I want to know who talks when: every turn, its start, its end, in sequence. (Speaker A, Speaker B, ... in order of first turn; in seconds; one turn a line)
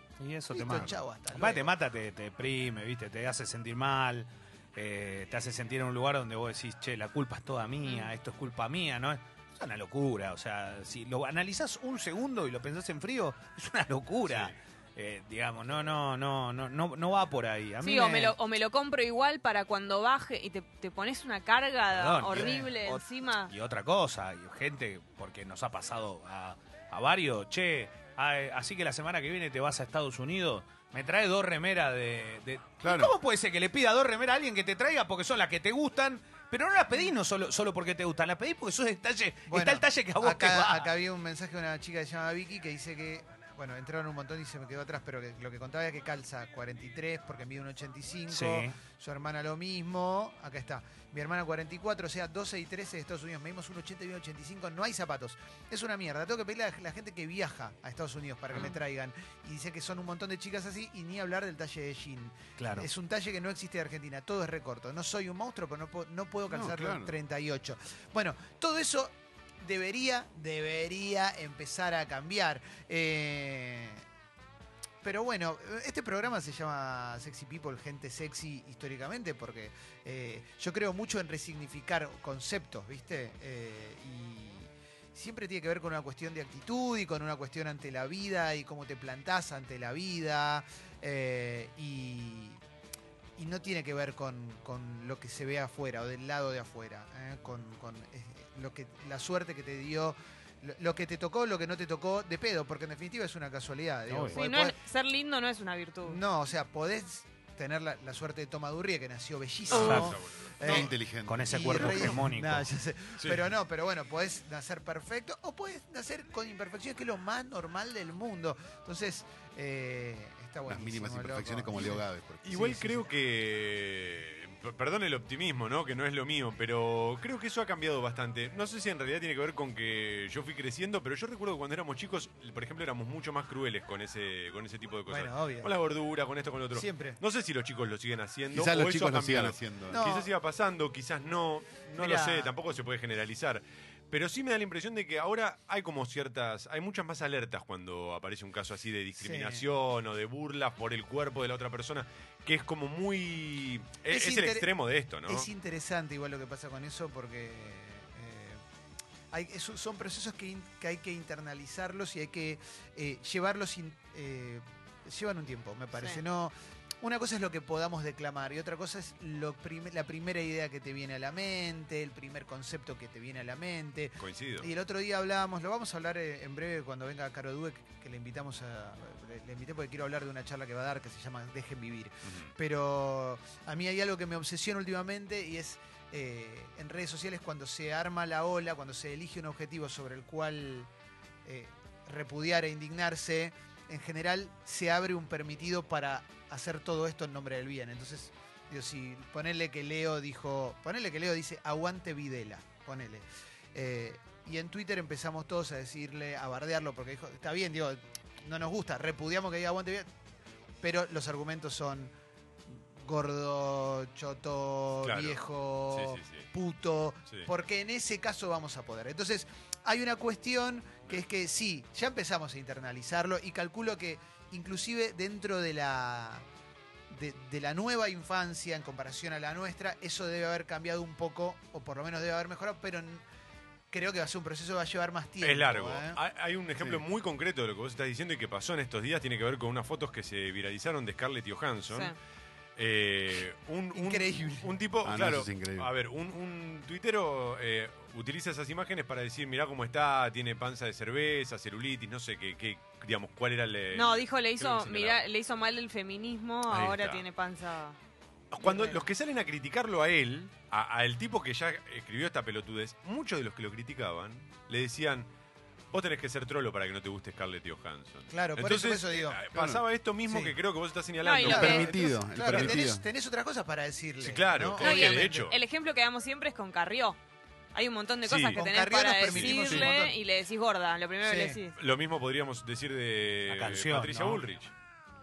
Speaker A: 0.2-18.3
Speaker B: 0.5-1.7
Speaker C: 14.2-14.5
Speaker D: 17.8-23.5
Speaker A: 21.9-40.9
Speaker E: 32.8-33.1
Speaker B: 39.5-74.0
Speaker A: 48.3-48.7
Speaker A: 62.6-62.9
Speaker E: 66.5-67.1
Speaker B: 75.0-92.6
Speaker B: 93.4-104.8
Speaker A: 104.1-104.4
Speaker D: 104.3-106.2
Speaker B: 106.0-110.9
Speaker C: 109.7-110.9
Speaker A: 109.7-110.1
Speaker E: 110.6-112.1
Speaker A: 111.2-112.7
Speaker B: 111.5-122.0
Speaker E: 120.7-123.1
Speaker C: 122.4-155.5
Speaker B: 135.1-135.7
Speaker B: 136.7-137.2
Speaker E: 138.5-140.0
Speaker B: 139.9-140.3
Speaker B: 142.0-142.5
Speaker B: 149.2-149.6
Speaker B: 154.1-154.7
Speaker B: 155.2-158.6
Speaker B: 159.3-190.9
Speaker D: 165.9-166.2
Speaker C: 174.2-174.7
Speaker B: 191.4-210.1
Speaker B: 210.8-212.1
Speaker B: 212.7-226.4
Speaker C: 215.0-216.5
Speaker B: 227.1-233.2
Speaker B: 233.9-236.2
Speaker C: 235.4-242.1
Speaker E: 236.8-237.0
Speaker D: 241.9-242.2
Speaker C: 242.8-255.2
Speaker B: 243.9-244.7
Speaker E: 245.0-245.9
Speaker D: 253.9-258.0
Speaker C: 256.7-257.2
Speaker C: 258.5-265.3
Speaker D: 258.6-259.0
Speaker C: 265.9-272.8
Speaker B: 268.3-269.4
Speaker E: 269.5-269.8
Speaker B: 270.3-270.5
Speaker D: 271.2-271.9
Speaker B: 271.4-275.5
Speaker E: 271.4-273.1
Speaker C: 274.2-275.6
Speaker D: 274.8-277.2
Speaker D: 277.7-281.8
Speaker C: 278.2-278.6
Speaker B: 278.5-280.1
Speaker C: 279.3-279.9
Speaker B: 281.2-281.6
Speaker C: 281.8-284.7
Speaker A: 283.5-284.4